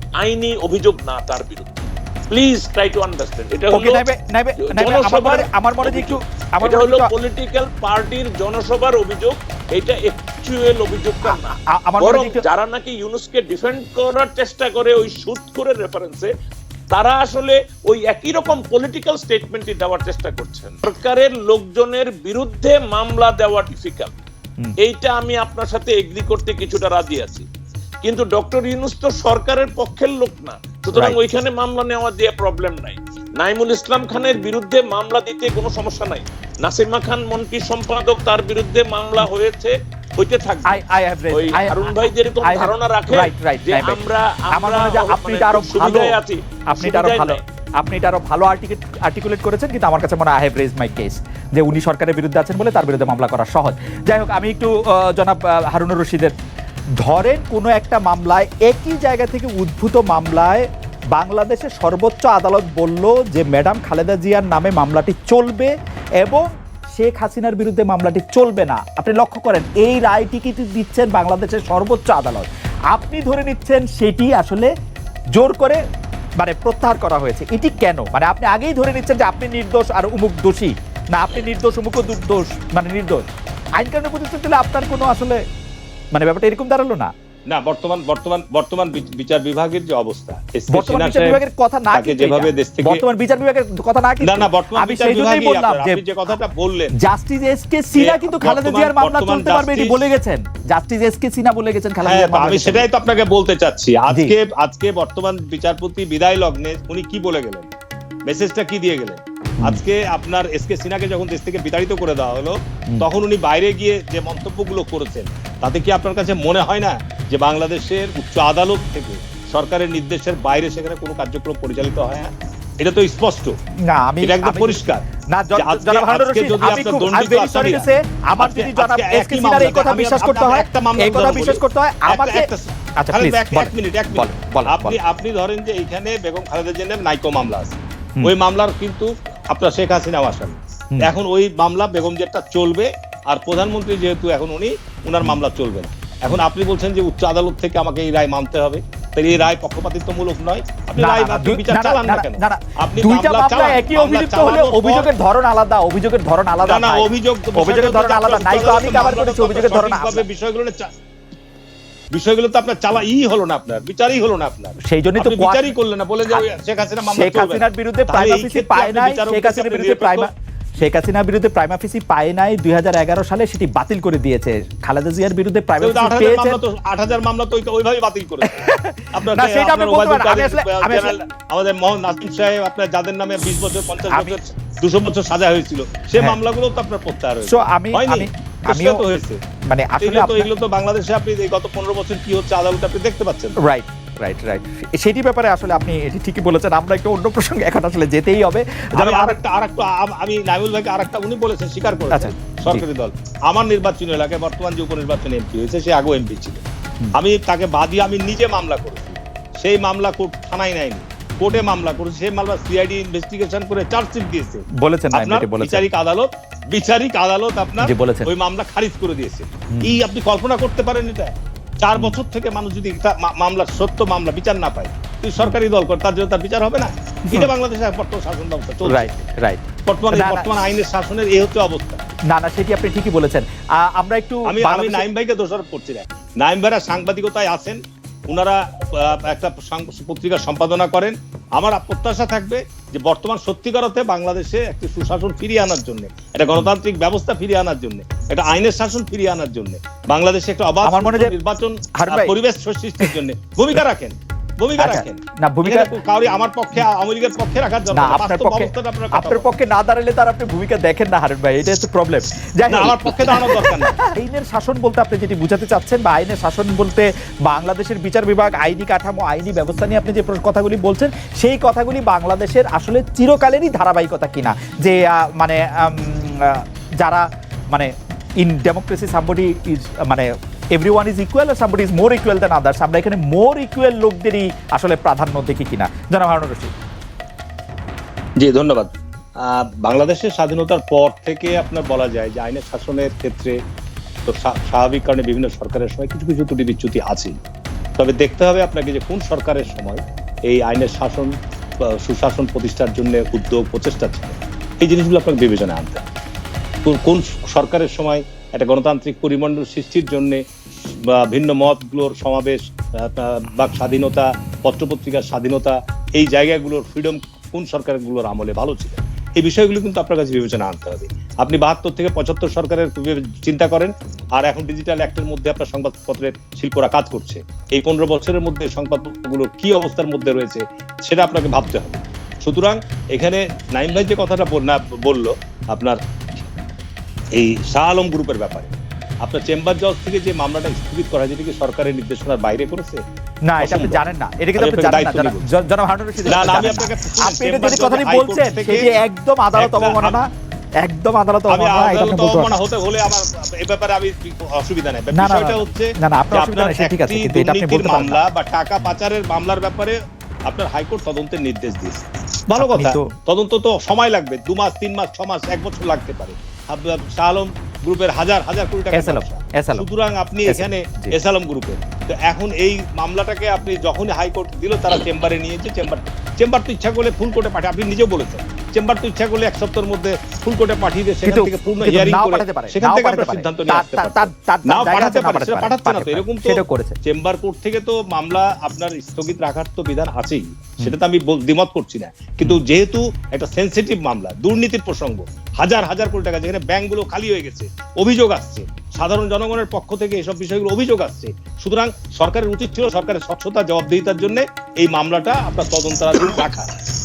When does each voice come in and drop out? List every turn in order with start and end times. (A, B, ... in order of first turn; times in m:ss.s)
0:00.2-0:04.0 A
0:03.7-0:07.1 B
0:04.6-0:16.3 A
0:11.2-0:12.4 B
0:16.9-0:24.1 A
0:24.8-0:27.4 A
0:28.0-0:40.8 A
0:40.7-0:44.0 B
0:41.3-0:47.4 A
0:44.5-0:46.2 B
0:46.7-0:56.3 B
0:57.0-1:14.7 B
1:15.3-1:15.8 B
1:16.4-1:25.4 B
1:26.1-1:27.1 B
1:27.5-1:31.4 C
1:30.7-1:36.3 B
1:31.9-1:33.0 C
1:34.2-1:36.9 C
1:37.0-1:42.9 B
1:37.9-1:40.0 C
1:42.0-1:47.7 C
1:48.2-2:03.5 C
2:03.9-2:12.5 B
2:04.2-2:05.0 C
2:05.5-2:07.8 C
2:08.4-2:35.1 C
2:13.0-2:15.0 B
2:31.0-2:40.2 B
2:36.6-2:40.9 C
2:42.1-2:50.3 C
2:44.8-2:45.7 B
2:47.0-2:56.6 B
2:55.8-3:09.4 C
2:58.4-3:01.1 B
3:04.1-3:04.4 B
3:07.4-3:09.0 B
3:09.7-3:10.5 B
3:10.0-3:13.6 C
3:13.6-3:19.4 B
3:19.0-3:26.6 C
3:22.1-3:22.8 B
3:27.1-3:49.1 C
3:34.8-3:35.8 B
3:37.8-3:38.3 B
3:39.7-3:40.0 B
3:48.8-3:50.6 B
3:49.9-3:52.0 C
3:52.3-3:55.0 B
3:54.5-3:57.8 C
3:58.3-4:19.5 C
4:10.8-4:11.3 B
4:12.0-4:12.3 B
4:14.8-4:15.9 B
4:17.9-4:46.7 B
4:22.7-4:23.9 C
4:48.4-4:53.5 C
4:54.2-4:57.4 C
4:58.0-5:06.0 C
5:06.8-5:10.4 C
5:11.1-5:36.5 C
5:37.3-5:38.7 C
5:39.2-5:43.0 C
5:43.4-5:50.3 B
5:43.6-5:45.4 C
5:46.2-5:48.9 C
5:49.5-5:50.2 C
5:50.8-5:52.5 B
5:51.5-6:00.0 C
5:55.1-5:58.2 B
6:00.5-6:46.7 C
6:02.6-6:03.1 B
6:08.9-6:09.8 B
6:10.4-6:11.1 B
6:21.2-6:27.0 B